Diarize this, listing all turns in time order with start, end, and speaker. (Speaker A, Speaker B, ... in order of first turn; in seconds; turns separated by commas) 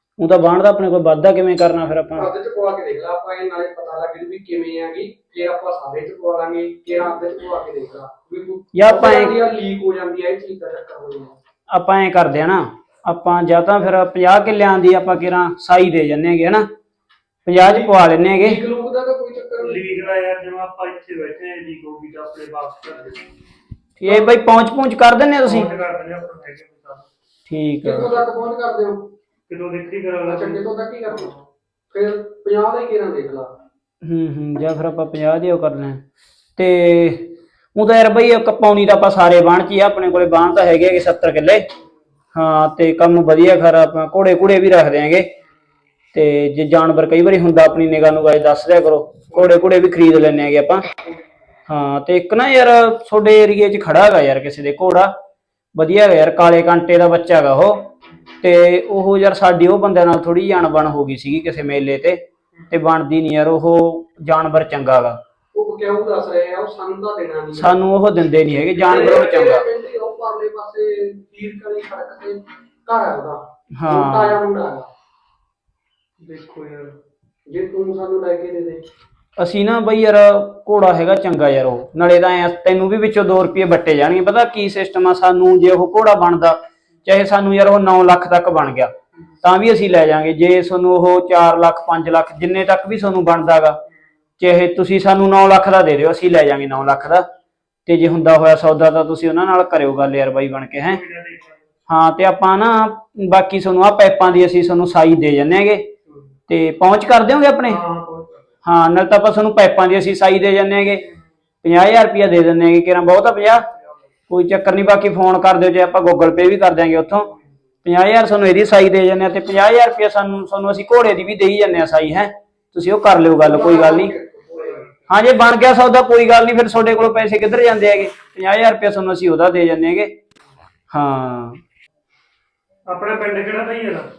Speaker A: 0.2-2.3, Speaker B: 2.2-11.3, Speaker A: 8.7-9.4, Speaker A: 11.7-16.7, Speaker A: 17.5-18.6, Speaker B: 17.6-19.8, Speaker C: 19.6-23.2, Speaker A: 24.0-25.7, Speaker C: 24.1-24.4, Speaker C: 25.4-27.1, Speaker A: 27.5-28.2, Speaker B: 27.8-29.0, Speaker C: 29.5-31.4, Speaker B: 30.3-31.2, Speaker B: 31.9-33.5, Speaker A: 34.0-36.0, Speaker A: 36.6-41.6, Speaker A: 42.4-45.3, Speaker A: 46.1-50.8, Speaker A: 51.7-55.1, Speaker A: 55.8-57.8, Speaker A: 58.4-62.2, Speaker A: 62.7-65.2, Speaker B: 65.5-67.7, Speaker A: 67.5-69.7, Speaker B: 68.9-74.9, Speaker A: 73.8-74.4, Speaker C: 76.2-76.9, Speaker B: 77.5-78.8, Speaker A: 79.4-88.9, Speaker A: 89.4-93.8, Speaker A: 94.4-97.2, Speaker A: 97.9-101.0, Speaker C: 100.8-101.7, Speaker A: 101.9-105.9, Speaker A: 106.5-107.8, Speaker C: 107.7-108.5, Speaker A: 108.7-111.0, Speaker A: 111.6-113.6, Speaker C: 113.7-114.0, Speaker A: 114.3-117.3, Speaker A: 117.8-124.1, Speaker B: 123.4-124.9, Speaker C: 124.6-124.9, Speaker A: 125.1-130.1, Speaker A: 130.9-131.6, Speaker C: 132.9-134.1